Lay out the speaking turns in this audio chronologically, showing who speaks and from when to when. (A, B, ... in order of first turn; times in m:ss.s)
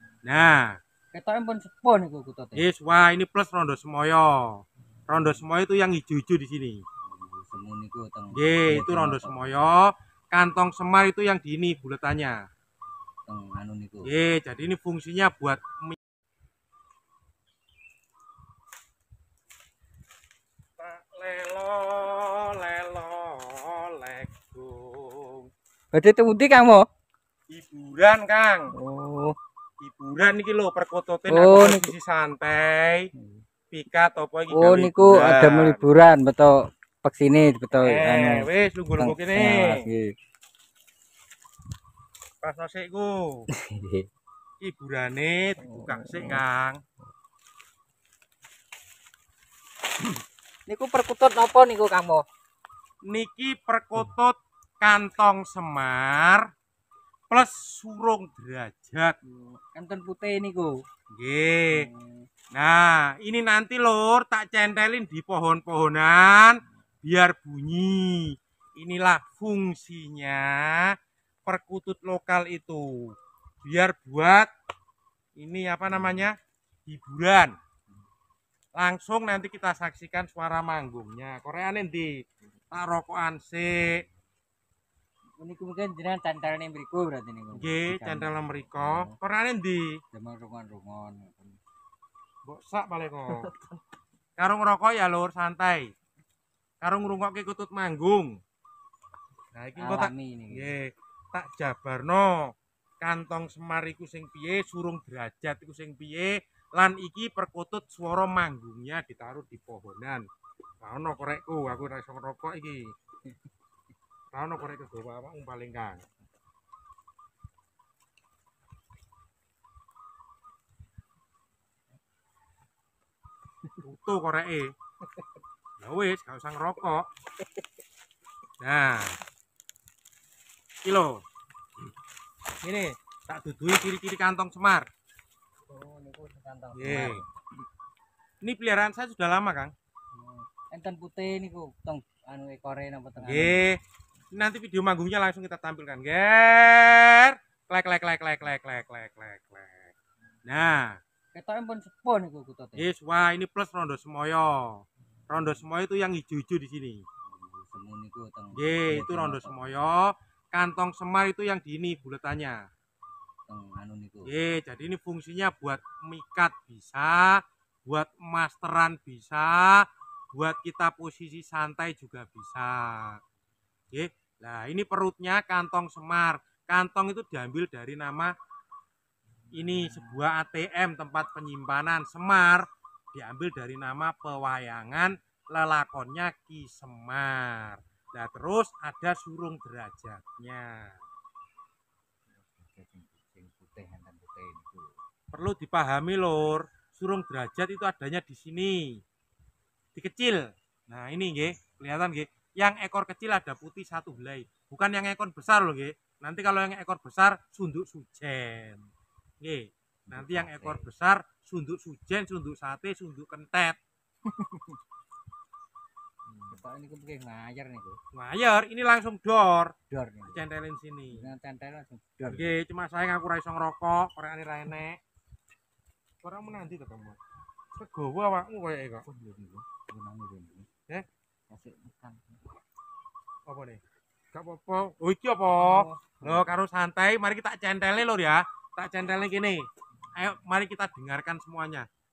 0:00.2-0:00.8 A
0:01.1-0:02.7 B
0:02.5-0:06.8 A
0:07.1-0:09.6 B
0:08.3-0:12.4 A
0:13.3-0:14.1 B
0:14.0-0:16.0 A
0:20.8-0:25.5 A
0:25.9-0:26.8 B
0:27.5-0:28.7 A
0:28.8-0:29.4 B
0:29.8-0:33.1 A
0:31.3-0:31.9 B
0:33.2-0:33.4 B
0:33.7-0:35.8 A
0:34.5-0:40.1 B
0:37.7-0:39.9 A
0:42.4-0:43.5 A
0:43.5-0:44.1 B
0:44.6-0:46.8 A
0:45.6-0:46.4 B
0:50.7-0:52.2 B
0:53.0-0:56.5 A
0:57.3-0:59.2 A
0:59.2-1:00.8 B
1:01.1-1:01.9 A
1:01.7-1:02.3 B
1:02.5-1:14.5 A
1:15.4-1:16.4 A
1:16.9-1:17.6 A
1:18.8-1:22.1 A
1:22.7-1:24.0 A
1:25.4-1:29.2 B
1:27.6-1:30.0 A
1:30.1-1:31.6 B
1:32.4-1:33.5 A
1:33.4-1:33.7 B
1:34.4-1:35.9 A
1:36.8-1:38.4 A
1:39.5-1:50.2 A
1:39.8-1:40.7 B
1:50.8-1:52.9 A
1:54.3-1:56.0 A
2:03.8-2:04.7 A
2:05.8-2:07.0 A
2:08.6-2:09.2 A
2:10.8-2:11.2 A
2:12.6-2:14.9 A
2:15.7-2:17.3 B
2:16.8-2:17.2 A
2:18.4-2:19.7 A
2:20.2-2:23.6 B
2:23.2-2:23.8 A
2:24.3-2:29.9 A
2:30.4-2:31.0 A
2:31.3-2:32.9 B
2:32.8-2:37.0 A
2:37.3-2:39.8 B
2:38.6-2:42.6 A
2:43.5-2:44.3 B
2:44.2-2:53.2 A
2:53.9-2:58.3 A
2:59.5-3:11.0 A
3:12.4-3:15.0 B
3:15.3-3:19.0 A
3:20.0-3:28.9 A
3:29.4-3:33.8 A
3:30.1-3:30.9 B
3:34.3-3:34.8 B
3:36.3-3:36.6 A
3:36.5-3:38.0 B
3:38.1-3:39.8 A
3:39.9-3:40.5 B
3:40.3-3:41.3 A
3:41.1-3:42.6 B
3:42.3-3:45.0 A
3:46.2-3:47.2 A
3:47.7-3:49.1 A
3:49.1-3:50.7 B
3:51.5-3:52.4 B
3:53.5-3:53.8 A
3:54.3-4:01.9 A
3:55.5-3:56.5 B